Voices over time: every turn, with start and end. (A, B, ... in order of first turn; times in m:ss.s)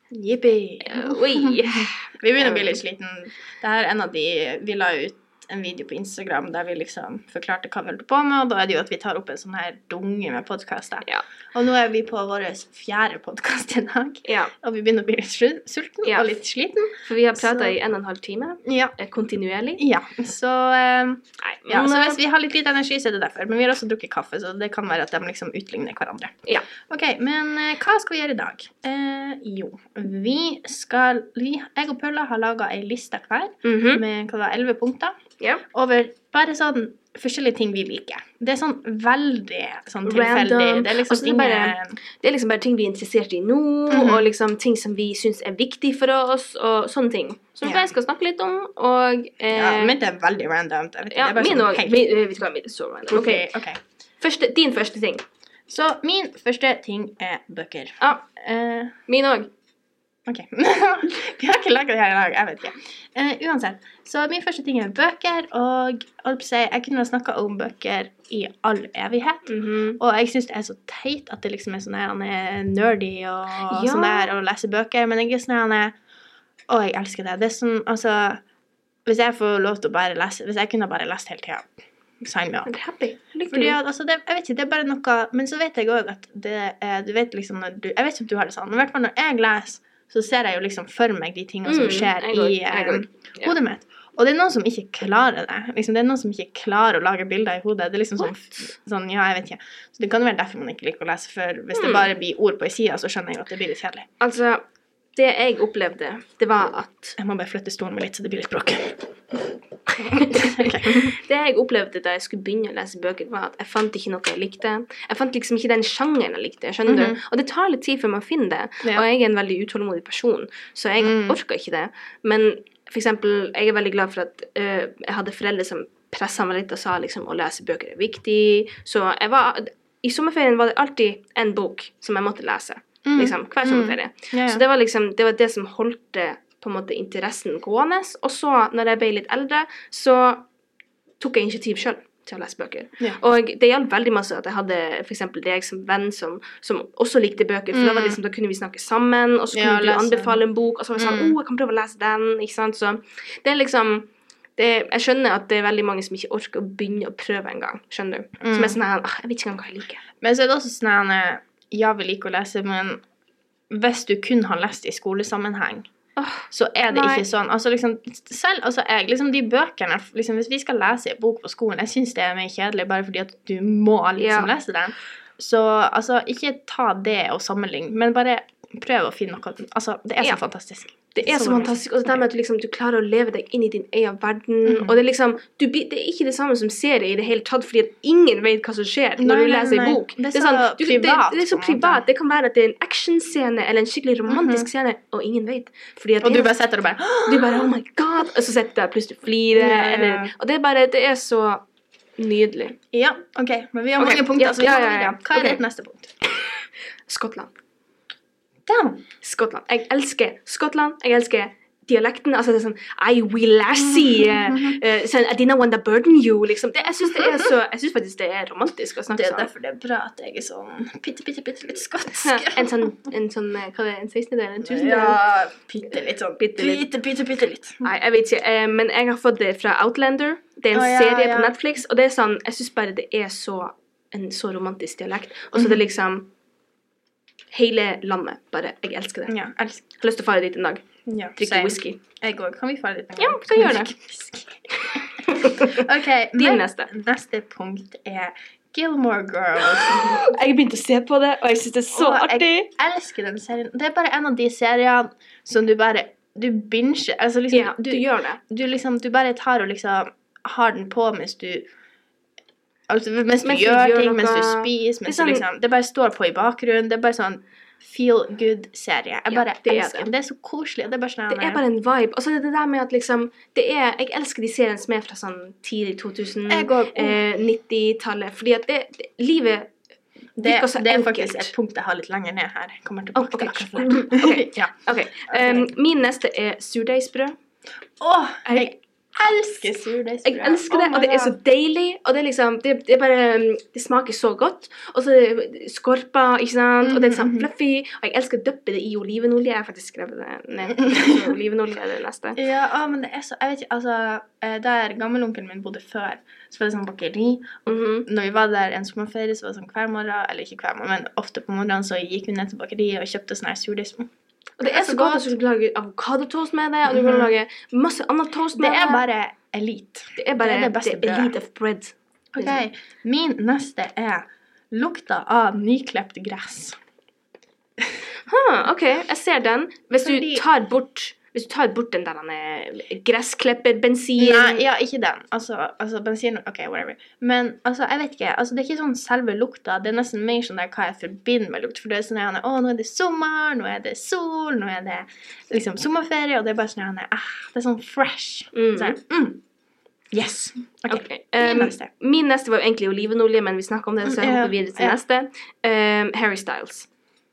0:00.1-0:17.8 A
0:00.8-0:02.8 B
0:14.2-0:14.5 B
0:17.1-0:19.8 B
0:18.6-0:19.0 A
0:19.8-0:26.4 A
0:21.4-0:22.2 B
0:26.9-0:35.1 A
0:33.6-0:34.0 B
0:35.7-0:42.0 A
0:40.0-0:50.0 B
0:43.9-0:44.3 A
0:47.6-0:47.9 A
0:49.5-0:52.0 A
0:51.1-0:53.5 B
0:53.1-0:53.8 A
0:54.2-0:55.2 B
0:55.7-0:59.0 A
0:59.1-0:59.5 B
1:00.3-1:15.9 A
1:09.5-1:10.0 B
1:13.6-1:14.3 B
1:16.7-1:18.4 A
1:19.1-1:21.7 A
1:22.2-1:22.7 A
1:22.7-1:23.8 B
1:23.5-1:44.1 A
1:31.6-1:33.6 B
1:38.2-1:38.7 B
1:41.8-1:42.1 B
1:44.2-1:44.6 B
1:45.2-1:47.2 B
1:47.2-1:49.4 A
1:50.0-2:20.5 B
1:50.0-1:51.2 A
1:56.9-1:57.2 A
2:01.0-2:01.4 A
2:13.0-2:14.6 A
2:21.2-2:40.0 B
2:27.7-2:28.2 A
2:29.5-2:30.4 A
2:31.0-2:31.4 A
2:38.4-2:38.8 A
2:40.2-2:43.0 A
2:43.7-2:45.9 A
2:46.2-2:47.2 B
2:46.5-3:02.2 A
2:54.2-2:54.5 B
3:01.1-3:16.5 B
3:04.7-3:05.0 A
3:09.2-3:12.0 A
3:14.3-3:14.7 A
3:16.2-3:17.7 A
3:17.3-3:21.6 B
3:19.5-3:20.3 A
3:22.2-3:22.8 B
3:22.9-3:26.1 A
3:24.0-3:25.6 B
3:26.3-3:27.5 B
3:28.7-3:29.0 A
3:29.2-3:39.5 B
3:33.7-3:34.8 A
3:39.1-3:43.0 A
3:42.1-3:45.2 B
3:44.6-3:47.9 A
3:45.9-3:46.9 B
3:47.8-3:56.3 B
3:50.7-3:51.6 A
3:55.6-3:55.8 A
3:57.5-3:59.3 B
3:59.3-3:59.9 A
4:00.0-4:00.9 B
4:01.1-4:10.2 A
4:01.4-4:02.0 B
4:03.2-4:03.9 B
4:04.8-4:05.8 B
4:06.4-4:06.9 B
4:09.6-4:12.7 B
4:11.9-4:21.6 A
4:17.5-4:18.4 B
4:22.9-4:31.6 A
4:23.4-4:25.4 B
4:29.3-4:30.1 B
4:31.3-4:39.7 B
4:36.5-4:37.2 A
4:40.4-4:45.7 A
4:40.4-4:41.5 B
4:43.2-4:47.4 B
4:48.0-4:51.4 A
4:48.5-4:48.7 B
4:50.2-5:02.4 B
4:56.8-4:57.5 A
5:00.7-5:01.2 A
5:02.4-5:14.1 A
5:07.7-5:08.1 B
5:14.6-5:19.1 B
5:14.6-5:15.4 A
5:16.9-5:17.3 A
5:18.6-5:21.3 A
5:20.2-5:22.6 B
5:22.3-5:26.8 A
5:28.3-5:34.6 B
5:30.0-5:30.5 A
5:34.2-5:49.4 A
5:48.5-5:49.0 B
5:50.1-5:51.9 A
5:50.9-5:56.9 B
5:54.0-5:55.0 A